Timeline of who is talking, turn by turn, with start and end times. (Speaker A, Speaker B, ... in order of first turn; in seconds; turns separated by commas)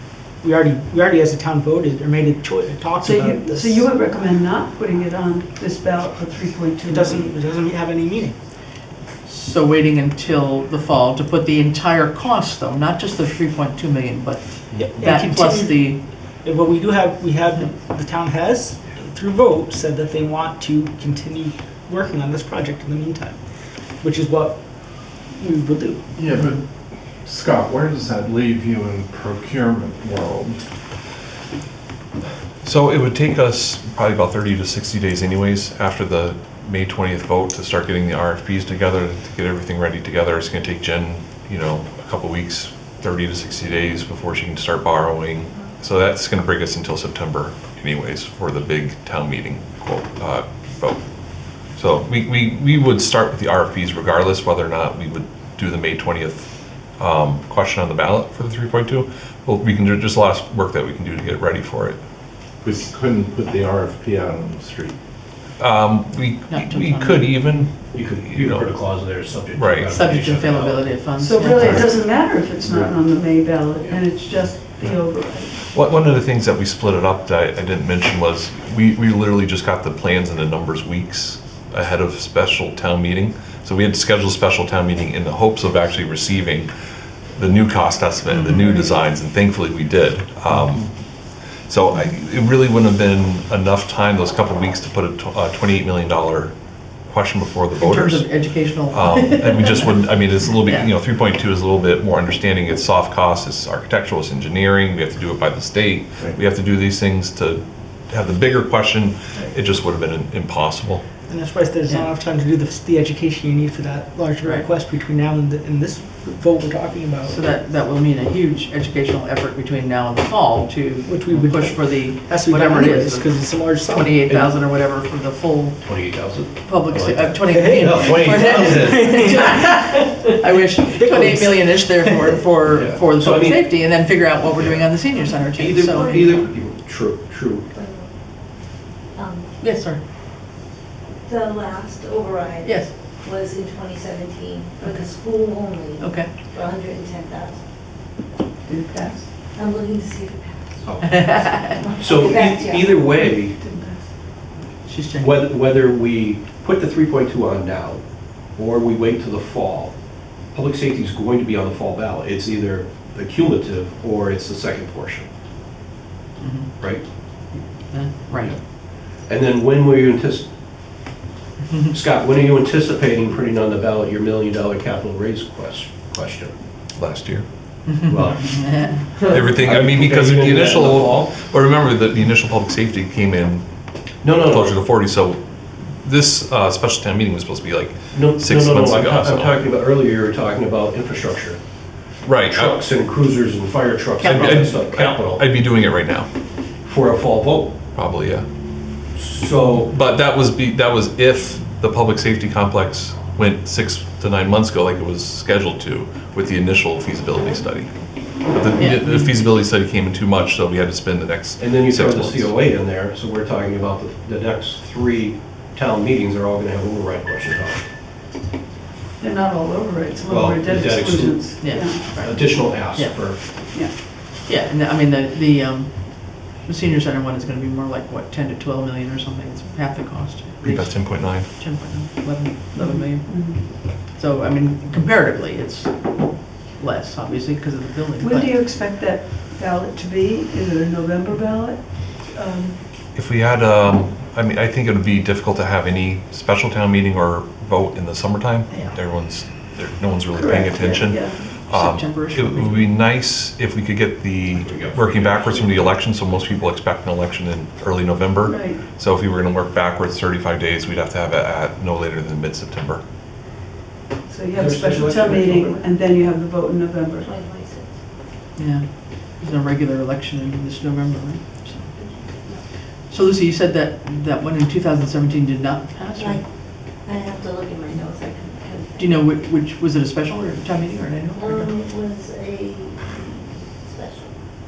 Speaker A: 0.4-3.9, Speaker B: 3.0-7.3, Speaker A: 6.8-8.4, Speaker C: 9.2-16.0, Speaker A: 14.7-23.4, Speaker A: 24.0-24.7, Speaker A: 25.3-26.1, Speaker D: 26.1-26.6, Speaker D: 27.2-30.6, Speaker E: 32.6-51.0, Speaker E: 51.7-62.0, Speaker D: 62.6-65.0, Speaker E: 65.6-68.7, Speaker C: 66.5-67.4, Speaker F: 67.9-71.0, Speaker E: 69.5-69.9, Speaker C: 69.9-71.9, Speaker B: 71.2-75.7, Speaker E: 75.7-86.7, Speaker E: 87.3-90.9, Speaker C: 88.3-88.9, Speaker E: 91.7-111.0, Speaker C: 97.8-100.9, Speaker A: 111.3-117.4, Speaker C: 117.2-126.0, Speaker A: 121.0-124.2, Speaker F: 124.2-124.5, Speaker F: 125.8-129.6, Speaker C: 126.6-136.3, Speaker A: 127.5-129.8, Speaker A: 130.9-132.3, Speaker F: 132.7-133.9, Speaker F: 134.4-137.7, Speaker G: 135.1-136.4, Speaker G: 137.7-139.5, Speaker C: 139.6-140.0, Speaker G: 141.2-147.6, Speaker C: 142.6-142.9, Speaker B: 144.8-145.1, Speaker C: 146.0-146.3, Speaker B: 148.6-149.4, Speaker G: 149.5-153.1, Speaker F: 150.8-151.3, Speaker C: 151.0-151.8, Speaker F: 152.0-153.6, Speaker B: 153.1-154.1, Speaker C: 154.8-155.4, Speaker F: 155.2-165.3, Speaker C: 166.4-168.6, Speaker F: 168.4-170.5, Speaker F: 171.9-176.5, Speaker E: 176.9-177.9, Speaker C: 177.8-179.2, Speaker F: 178.1-181.4, Speaker E: 179.3-183.6, Speaker F: 184.2-184.8, Speaker E: 184.2-185.4, Speaker E: 186.0-189.7, Speaker F: 188.1-191.6, Speaker E: 192.2-192.9, Speaker F: 192.4-195.4, Speaker C: 194.2-194.7, Speaker E: 194.3-196.3, Speaker F: 196.8-197.8, Speaker E: 197.9-198.5, Speaker F: 199.1-199.9, Speaker E: 199.8-212.6, Speaker C: 208.8-209.3, Speaker F: 211.6-217.8, Speaker B: 219.2-222.1, Speaker F: 220.3-223.5, Speaker C: 221.5-223.8, Speaker C: 224.4-238.6, Speaker E: 230.6-231.5, Speaker B: 232.7-233.8, Speaker B: 238.2-242.8, Speaker E: 243.1-263.0, Speaker C: 248.7-249.0, Speaker B: 250.3-251.5, Speaker C: 251.4-252.9, Speaker F: 254.5-256.0, Speaker B: 258.4-258.8, Speaker B: 264.3-267.3, Speaker F: 264.5-265.8, Speaker G: 267.2-268.0, Speaker C: 268.5-276.4, Speaker G: 271.9-272.6, Speaker G: 276.2-279.3, Speaker C: 279.0-281.8, Speaker G: 281.4-284.4